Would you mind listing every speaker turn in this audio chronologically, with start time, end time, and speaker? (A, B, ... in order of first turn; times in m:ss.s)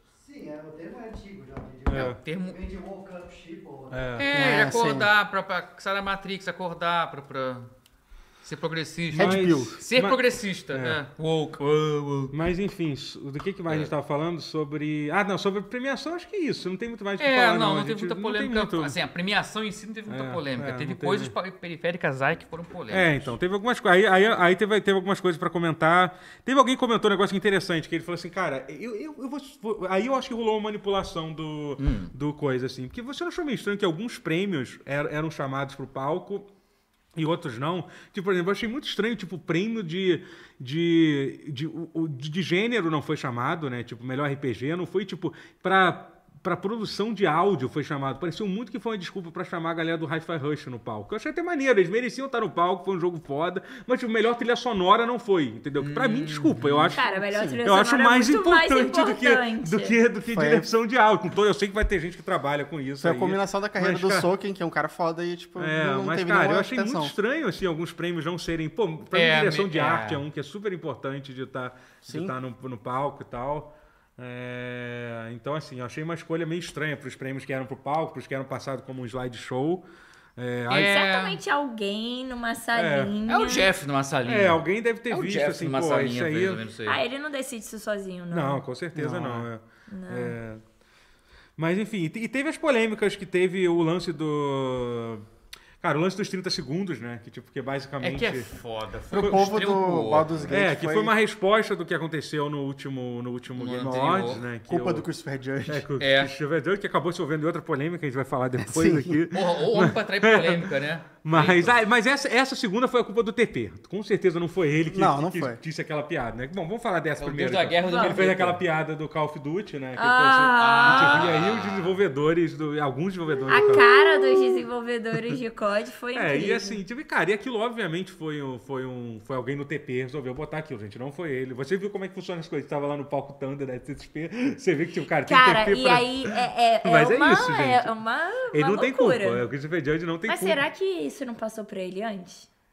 0:00.2-0:04.2 A
0:01.9-0:02.2 B
0:01.9-0:02.6 C
0:03.9-0:04.4 B
0:04.2-0:07.7 C
0:04.3-0:05.1 D
0:08.4-0:12.4 C
0:09.1-0:11.0 B
0:09.2-0:09.8 D
0:12.3-0:19.0 B
0:13.7-0:13.9 C
0:17.2-0:23.4 C
0:20.1-0:21.3 B
0:22.9-0:36.5 B
0:31.8-0:32.1 C
0:37.2-0:57.0 B
0:55.8-0:57.0 C
0:56.9-1:00.0 E
0:57.1-0:57.6 D
0:57.6-1:04.3 B
1:00.3-1:00.7 D
1:03.0-1:07.1 D
1:05.6-1:19.8 B
1:09.1-1:10.2 C
1:20.4-1:21.0 B
1:20.7-1:21.4 C
1:20.8-1:23.7 E
1:22.7-1:23.2 B
1:23.3-1:27.0 C
1:24.2-1:26.6 B
1:26.9-1:28.6 E
1:28.3-1:30.6 B
1:29.0-1:29.5 D
1:29.9-1:30.4 E
1:31.6-1:35.2 B
1:35.8-1:38.5 B
1:38.0-1:40.5 C
1:39.1-1:41.1 D
1:39.2-1:39.5 B
1:40.5-1:45.1 B
1:43.5-1:44.4 C
1:44.7-1:45.9 D
1:45.7-1:50.7 B
1:46.0-1:46.3 C
1:48.6-1:49.2 D
1:49.3-1:51.8 C
1:51.2-2:04.2 B
1:54.9-1:55.6 D
1:57.2-1:58.6 C
1:57.8-1:58.2 E
2:00.0-2:01.3 E
2:00.6-2:02.0 C
2:03.5-2:06.8 E
2:06.1-2:17.9 B
2:15.3-2:19.4 E
2:18.5-2:20.6 B
2:20.3-2:22.5 E